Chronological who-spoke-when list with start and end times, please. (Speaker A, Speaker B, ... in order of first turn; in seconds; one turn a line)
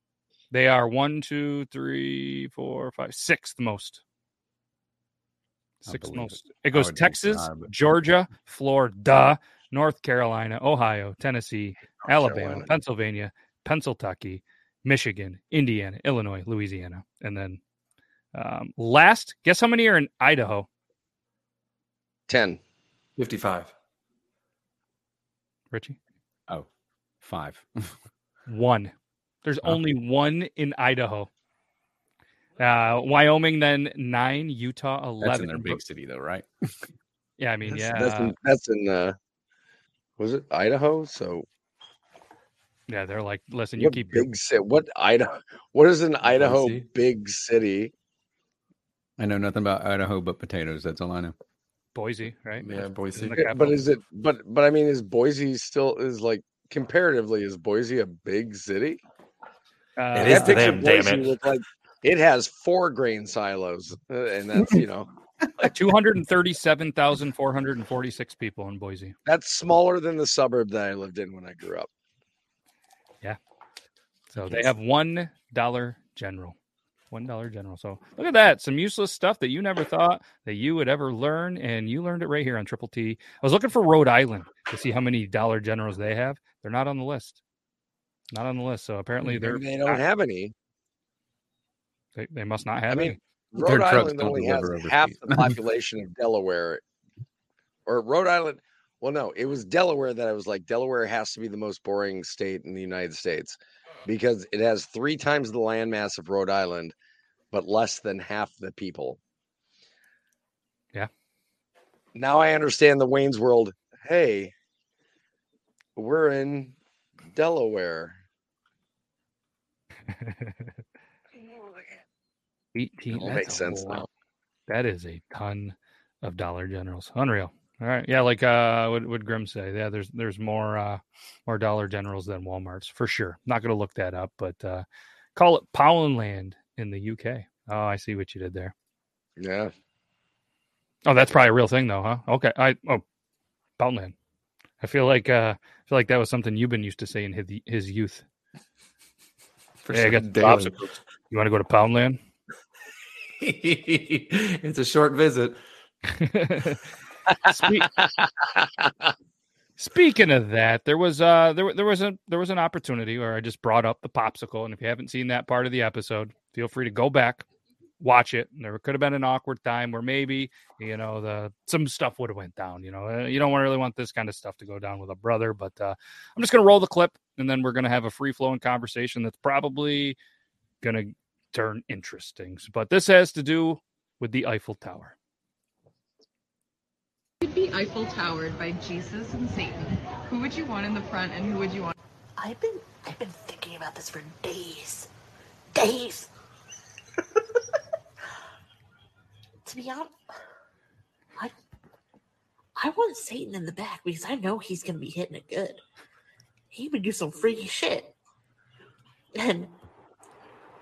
Speaker A: 0.5-4.0
Speaker A: 5.8-17.6
Speaker B: 5.9-7.7
Speaker C: 12.0-12.7
Speaker A: 18.3-20.7
Speaker C: 22.3-22.6
Speaker D: 23.2-23.7
Speaker A: 25.7-26.0
Speaker B: 27.2-27.9
Speaker A: 28.5-28.9
Speaker A: 29.4-31.3
Speaker A: 32.6-35.8
Speaker B: 35.2-36.5
Speaker A: 37.4-38.3
Speaker C: 37.7-39.1
Speaker C: 40.2-41.5
Speaker A: 42.9-44.3
Speaker C: 43.8-47.9
Speaker D: 46.2-46.9
Speaker B: 49.2-51.3
Speaker A: 51.9-53.8
Speaker D: 52.6-53.5
Speaker C: 53.4-59.0
Speaker A: 60.0-60.9
Speaker D: 60.1-61.4
Speaker C: 60.2-65.1
Speaker A: 65.6-69.1
Speaker C: 69.2-71.9
Speaker A: 74.3-76.5
Speaker A: 77.1-87.4
Speaker A: 88.3-90.0
Speaker C: 89.2-90.5
Speaker A: 92.2-93.2
Speaker C: 92.9-96.8
Speaker B: 93.6-95.6
Speaker C: 97.9-106.9
Speaker C: 107.5-109.2
Speaker C: 112.1-114.5
Speaker C: 116.0-116.8
Speaker C: 117.3-118.2
Speaker A: 120.1-120.7
Speaker C: 121.6-121.8
Speaker A: 122.7-124.0
Speaker C: 123.1-124.1
Speaker A: 124.7-138.7
Speaker C: 139.4-139.7
Speaker A: 141.0-143.0
Speaker A: 143.8-144.1
Speaker A: 144.8-148.2
Speaker D: 149.8-150.8
Speaker A: 149.9-152.2
Speaker D: 153.4-155.6
Speaker A: 156.1-156.8
Speaker C: 157.3-159.1
Speaker A: 157.5-157.9
Speaker A: 159.8-167.4
Speaker A: 168.0-180.2
Speaker A: 180.8-185.1
Speaker E: 187.4-191.9
Speaker F: 192.4-195.1
Speaker F: 195.7-196.3
Speaker F: 199.6-200.1
Speaker F: 202.8-205.8
Speaker F: 206.7-208.1
Speaker F: 209.3-209.7